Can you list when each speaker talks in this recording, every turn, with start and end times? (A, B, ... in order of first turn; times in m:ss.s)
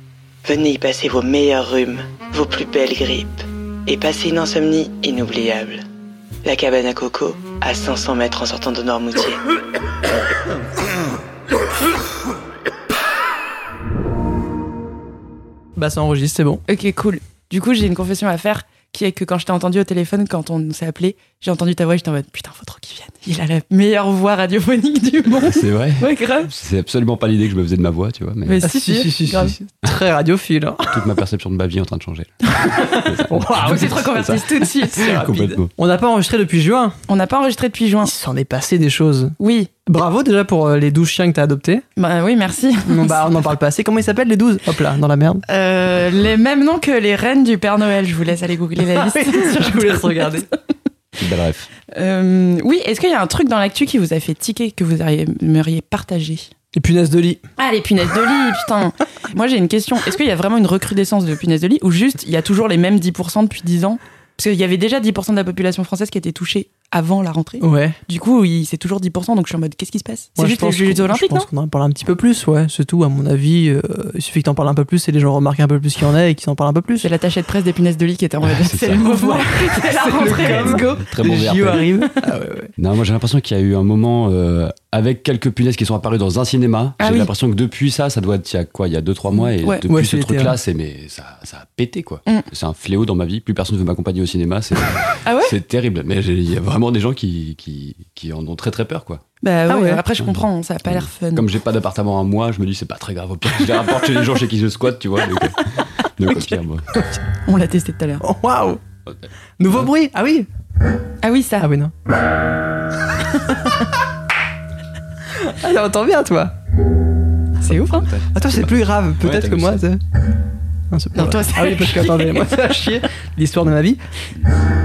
0:00.4-0:05.8 A
0:06.4-0:09.4 A
0:15.8-0:16.6 B
0:16.7-0:26.5 C
0:25.5-0:28.6 D
0:28.4-0:29.5 C
0:28.6-0:31.0 B
0:30.9-0:32.4 D
0:32.6-0:32.9 C
0:32.7-0:34.0 B
0:33.0-0:35.7 D
0:33.5-0:35.6 C
0:35.1-0:36.9 B
0:37.1-0:38.1 C
0:38.0-0:41.8 B
0:39.4-0:39.7 C
0:42.0-0:43.4 C
0:42.8-0:45.4 B
0:45.5-0:50.4 C
0:48.9-0:50.5 B
0:51.2-0:51.7 D
0:51.9-0:56.5 C
0:56.7-0:57.4 B
0:57.6-1:11.5 C
1:07.6-1:08.0 B
1:10.4-1:17.1 B
1:17.0-1:21.0 C
1:18.4-1:19.1 D
1:19.0-1:22.7 B
1:20.2-1:21.9 D
1:22.8-1:39.2 D
1:27.0-1:27.3 C
1:29.9-1:30.6 B
1:35.2-1:35.5 C
1:39.4-1:41.5 C
1:39.7-1:40.0 B
1:40.2-1:46.9 D
1:47.4-1:48.2 C
1:48.2-1:48.8 B
1:49.1-1:49.9 D
1:49.6-1:50.5 B
1:51.2-1:51.7 C
1:51.6-1:51.9 B
1:55.4-1:56.5 B
1:57.6-1:58.1 C
1:58.0-1:58.7 D
1:58.3-2:00.0 B
1:59.2-1:59.8 D
2:00.9-2:04.0 B
2:01.2-2:02.8 C